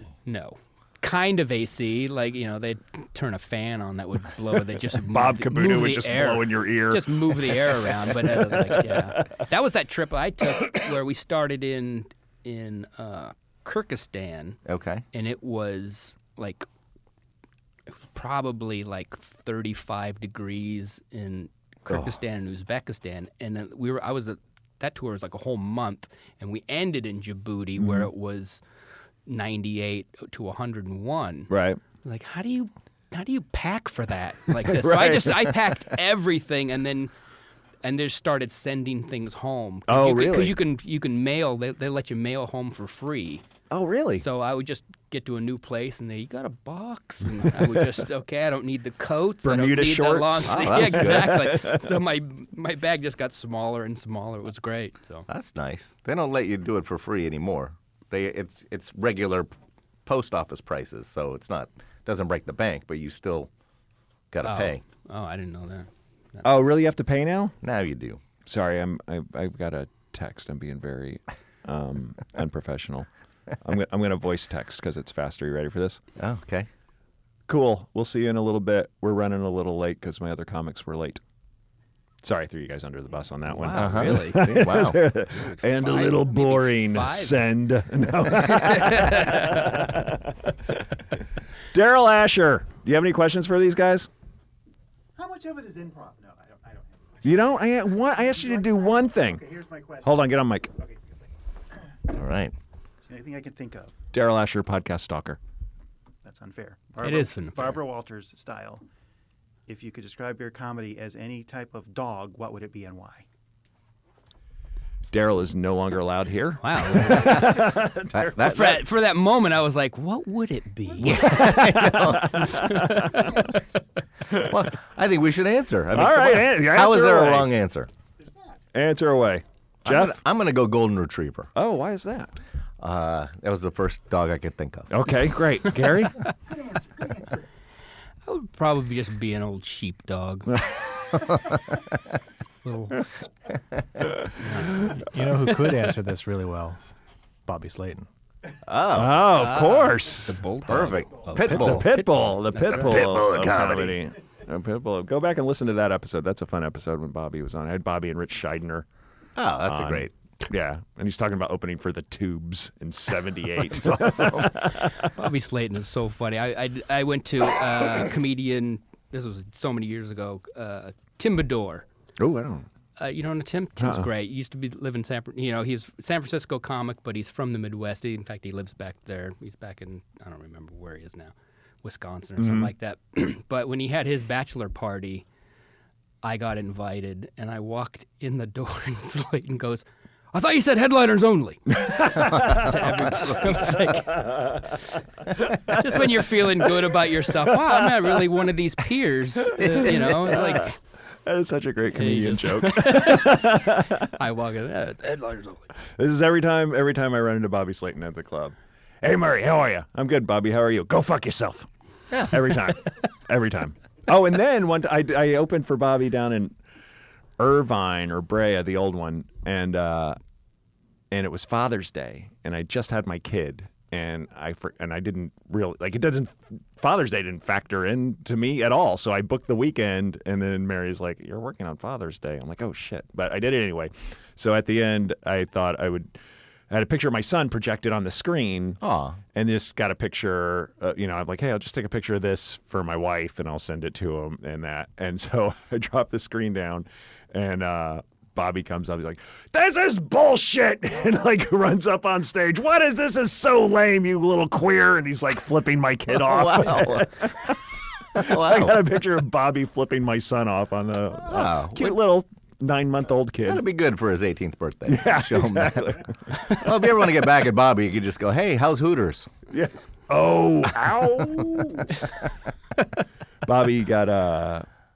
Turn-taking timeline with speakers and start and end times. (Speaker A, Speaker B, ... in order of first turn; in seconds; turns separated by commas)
Speaker A: 0.2-14.6, Speaker B: 4.9-9.4, Speaker C: 14.7-15.0, Speaker A: 15.1-16.7, Speaker A: 18.0-28.6, Speaker B: 27.8-28.1, Speaker A: 29.3-31.5, Speaker B: 31.5-31.8, Speaker A: 32.0-37.1, Speaker B: 34.6-35.5, Speaker A: 37.8-43.5, Speaker B: 39.9-40.6, Speaker B: 43.7-44.2, Speaker A: 44.2-55.3, Speaker B: 47.5-47.9, Speaker B: 49.4-52.0, Speaker C: 50.5-51.4, Speaker C: 55.3-59.5, Speaker C: 60.1-63.5, Speaker C: 64.3-64.8, Speaker A: 64.4-66.5, Speaker B: 66.4-67.5, Speaker C: 67.6-68.2, Speaker B: 68.5-73.1, Speaker B: 73.6-76.0, Speaker C: 76.2-76.7, Speaker B: 77.5-81.2, Speaker B: 82.2-90.9, Speaker A: 83.5-84.6, Speaker C: 83.8-85.0, Speaker A: 85.3-87.4, Speaker A: 88.4-89.8, Speaker B: 91.7-94.1, Speaker D: 95.2-101.2, Speaker B: 97.2-99.4, Speaker B: 100.0-100.7, Speaker C: 102.1-102.5, Speaker D: 103.0-104.0, Speaker B: 104.1-105.4, Speaker D: 106.2-108.8, Speaker A: 107.0-107.8, Speaker D: 109.7-113.3, Speaker B: 115.1-118.4, Speaker A: 116.6-117.7, Speaker C: 118.1-118.8, Speaker A: 118.4-123.6, Speaker B: 121.0-123.3, Speaker C: 121.0-122.6, Speaker D: 123.3-123.6, Speaker C: 124.3-127.9, Speaker B: 125.9-127.5, Speaker D: 128.2-128.6, Speaker B: 128.7-130.2, Speaker C: 129.8-131.5, Speaker B: 131.6-132.3, Speaker C: 132.8-135.0, Speaker B: 134.9-136.2, Speaker D: 136.2-137.5, Speaker A: 138.3-140.6, Speaker B: 140.5-141.2, Speaker C: 141.2-141.6, Speaker A: 142.6-143.2, Speaker A: 144.3-145.1, Speaker B: 144.6-145.0, Speaker E: 144.9-146.8, Speaker E: 147.5-148.1, Speaker C: 148.7-149.2, Speaker B: 148.9-150.4, Speaker A: 149.2-153.1, Speaker C: 150.7-151.9, Speaker B: 151.4-158.9, Speaker C: 152.7-154.0, Speaker C: 159.4-160.1, Speaker B: 159.7-165.1, Speaker C: 163.7-164.6, Speaker A: 164.9-171.9, Speaker B: 172.2-172.7, Speaker A: 173.0-185.3, Speaker B: 173.8-174.1, Speaker B: 182.4-182.7, Speaker A: 186.2-194.7, Speaker B: 191.8-198.4, Speaker C: 192.3-193.3, Speaker A: 195.7-200.8, Speaker B: 199.4-200.7, Speaker B: 201.2-204.2, Speaker A: 201.9-205.7, Speaker B: 206.0-211.7, Speaker B: 212.3-216.6, Speaker B: 217.4-220.2, Speaker B: 221.1-236.1, Speaker B: 236.7-238.8, Speaker C: 238.8-239.2, Speaker B: 239.3-257.6, Speaker C: 256.1-257.5, Speaker C: 258.1-258.9, Speaker B: 258.1-263.6, Speaker C: 261.3-262.0, Speaker C: 263.4-269.3, Speaker B: 264.9-266.7, Speaker B: 269.5-272.0, Speaker B: 273.4-274.7